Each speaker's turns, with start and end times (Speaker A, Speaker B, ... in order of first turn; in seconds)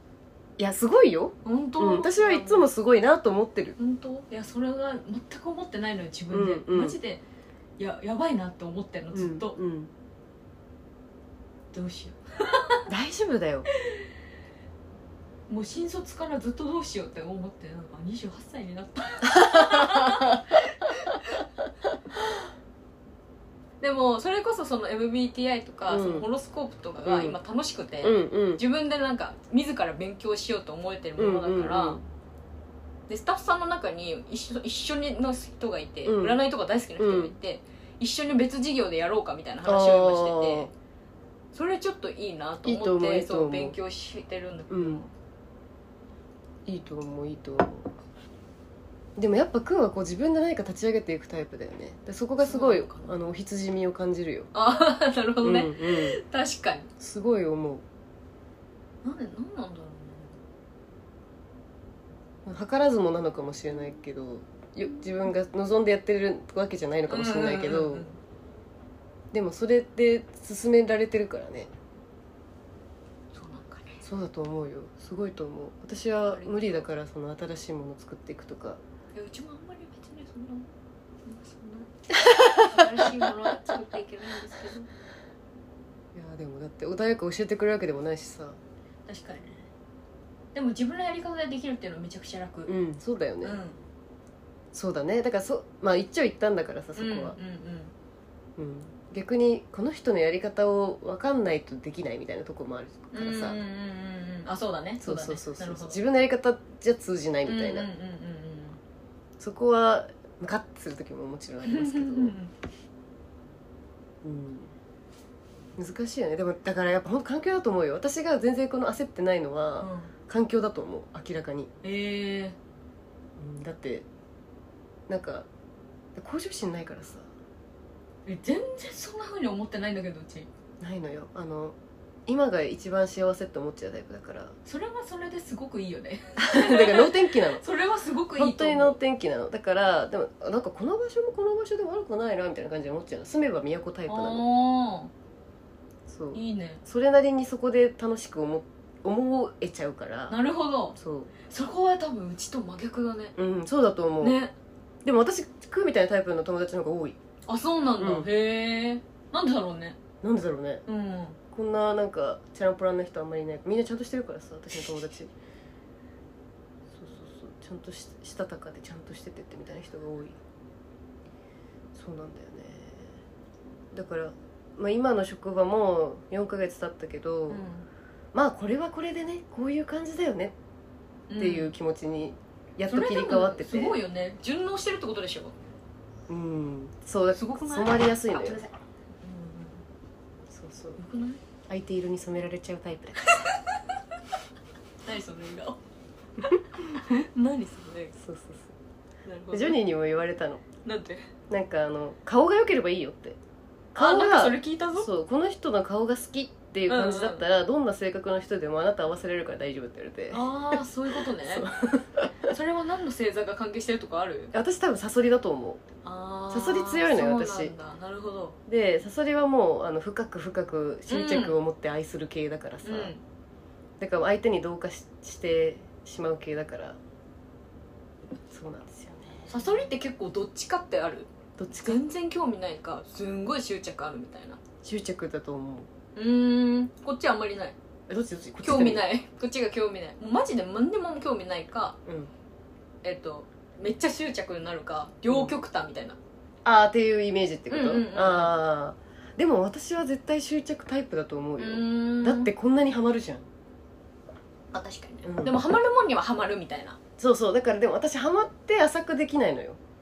Speaker A: 0.6-3.8, 6.3-7.0, 9.1-9.9, 12.8-13.7, 19.4-20.4, 25.9-26.3, 27.0-27.4, 28.0-28.6, 31.2-32.0, 36.0-36.4, 37.0-37.3, 39.6-40.7, 42.6-43.8, 44.7-45.0, 46.6-47.9, 49.2-54.5, 55.4-56.2, 57.0-57.8, 62.4-68.1, 69.3-71.7, 74.0-78.8, 86.1-88.6, 92.7-93.6, 94.7-97.4, 98.6-103.6, 105.0-107.9, 109.4-112.3, 114.2-114.7, 115.8-121.7, 123.4-124.0, 125.1-125.5, 126.2-127.3, 130.8-131.8, 132.3-134.5, 136.4-137.6, 138.3-144.4, 146.1-150.4, 151.0-151.3, 153.3-154.4, 155.0-157.2, 158.0-158.3, 160.2-160.8, 161.5-165.3, 166.9-170.4, 171.9-173.1, 173.9-177.7, 178.3-180.5, 181.4-184.0, 186.3-188.7, 190.5-191.0, 191.7-193.5, 198.2-198.7, 199.5-200.6, 201.5-203.4, 203.9-212.5, 214.5-215.8, 216.5-217.7, 218.7-223.1, 224.0-227.0, 228.5-229.6, 231.6-232.0, 234.8-235.9, 238.1-239.0, 242.1-242.3, 245.3-245.5, 246.6-253.4, 255.2-255.6, 257.2-259.8
Speaker B: 1.4-2.7, 3.8-7.2, 7.8-9.5, 11.7-12.9, 13.8-14.0, 15.5-21.4, 23.8-32.0, 33.1-40.7, 41.5-45.1, 52.4-53.2, 54.5-56.9, 59.0-60.4, 67.1-68.2, 73.3-74.0, 76.3-76.9, 79.1-80.7, 81.2-84.9, 89.1-89.7, 90.5-92.7, 93.4-93.8, 97.0-97.9, 103.1-106.0, 107.5-108.8, 111.6-112.5, 119.8-120.1, 121.8-122.5, 128.2-130.5, 134.6-139.0, 144.1-145.1, 146.3-146.8, 150.3-153.3, 154.2-154.5, 157.4-160.0, 160.9-161.4, 177.5-177.9, 181.3-181.7, 182.9-185.5, 187.3-188.7, 189.2-189.8, 190.9-191.4, 193.2-193.9, 195.0-195.8, 196.7-198.2, 199.2-199.8, 200.8-201.3, 204.0-205.1, 206.9-207.4, 210.3-211.7, 212.4-214.5, 216.0-218.6, 221.1-221.6, 222.8-223.2, 229.5-234.6, 236.2-237.7, 238.6-242.0, 243.0-246.2, 247.7-248.6, 251.6-252.5, 254.7-257.0